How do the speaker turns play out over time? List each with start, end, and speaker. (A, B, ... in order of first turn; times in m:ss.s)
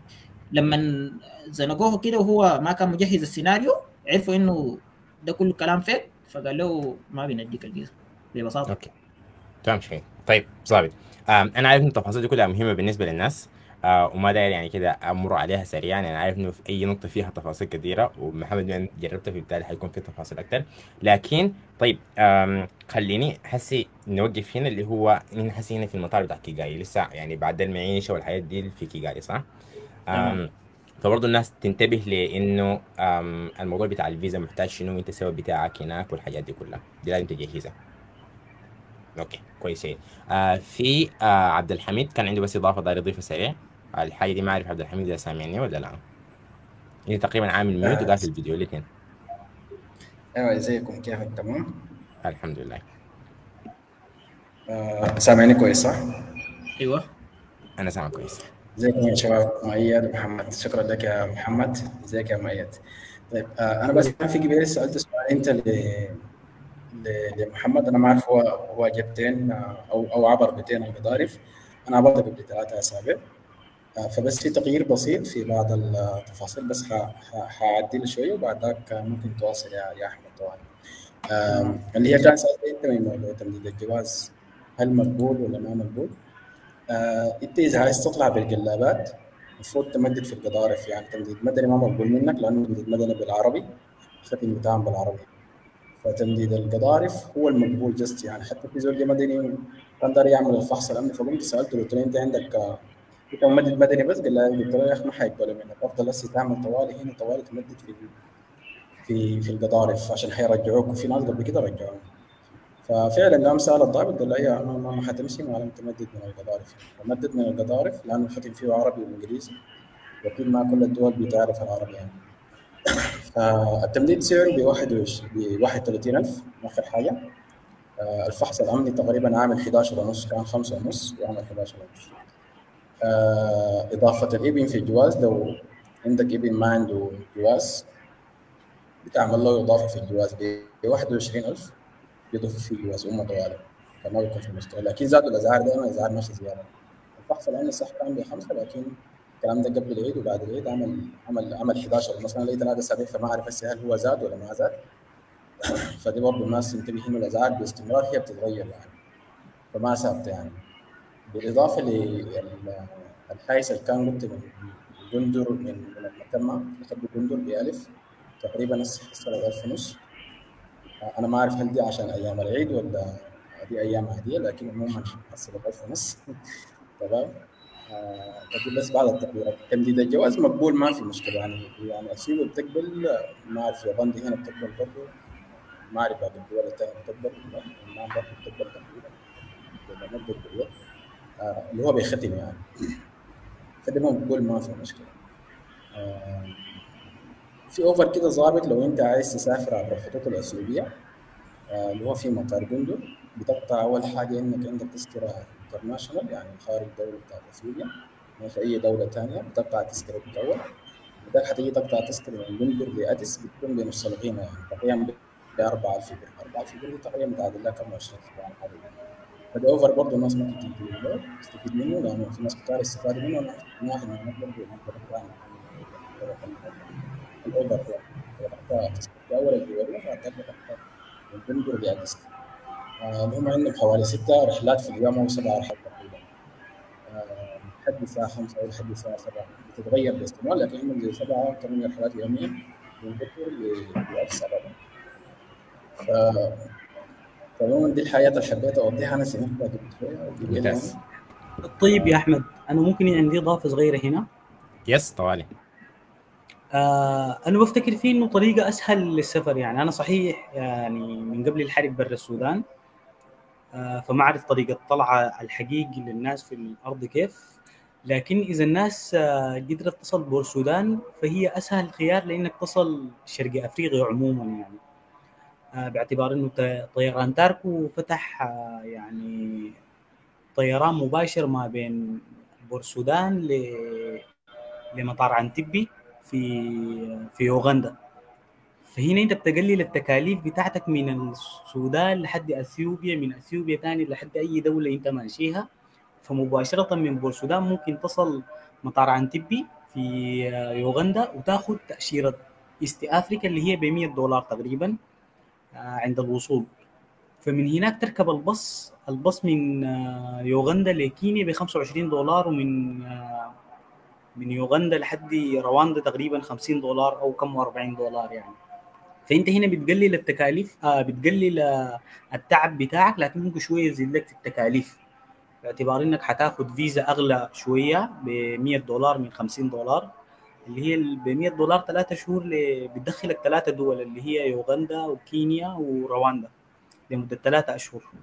0:00.5-0:08.7 A
0:09.6-0:29.4 B
0:30.1-0:37.7 B
0:30.1-0:30.4 A
0:39.2-0:46.0 B
0:47.1-0:48.8 B
0:47.8-0:48.2 C
0:50.4-0:51.9 C
0:52.2-0:52.8 B
0:54.7-0:56.4 C
0:56.8-0:57.1 A
0:57.8-0:58.4 B
0:58.8-1:06.2 C
1:06.9-1:13.2 C
1:14.0-1:20.7 C
1:21.3-1:26.2 C
1:26.9-1:33.7 C
1:34.2-1:35.3 C
1:36.0-1:48.1 C
1:49.0-1:52.1 C
1:52.8-1:59.6 C
2:00.2-2:02.2 C
2:03.2-2:07.3 C
2:08.0-2:12.2 C
2:13.0-2:17.9 C
2:19.0-2:21.7 C
2:22.3-2:34.8 C
2:35.6-2:39.0 C
2:39.7-2:40.6 C
2:41.3-2:47.9 C
2:48.4-2:50.0 C
2:51.0-2:56.2 C
2:57.0-3:05.1 C
3:05.9-3:09.1 C
3:09.8-3:10.7 C
3:11.4-3:12.6 C
3:13.8-3:15.1 C
3:15.9-3:16.7 C
3:17.7-3:20.9 C
3:21.7-3:30.7 C
3:31.2-3:38.9 C
3:39.5-3:46.9 C
3:47.4-3:52.2 C
3:53.0-3:56.2 C
3:57.1-4:04.8 C
4:06.0-4:06.7 C
4:07.6-4:11.0 C
4:10.4-4:11.0 B
4:11.6-4:14.2 D
4:14.9-4:15.5 B
4:16.7-4:22.6 D
4:23.7-4:27.4 D
4:28.1-4:34.8 D
4:35.8-4:39.7 D
4:40.6-4:44.2 D
4:44.9-4:47.9 D
4:48.9-4:55.6 D
4:56.2-5:05.0 D
5:05.7-5:06.7 D
5:07.4-5:13.5 D
5:14.4-5:18.6 D
5:19.3-5:25.0 D
5:25.6-5:30.1 D
5:30.7-5:36.5 D
5:37.1-5:38.1 D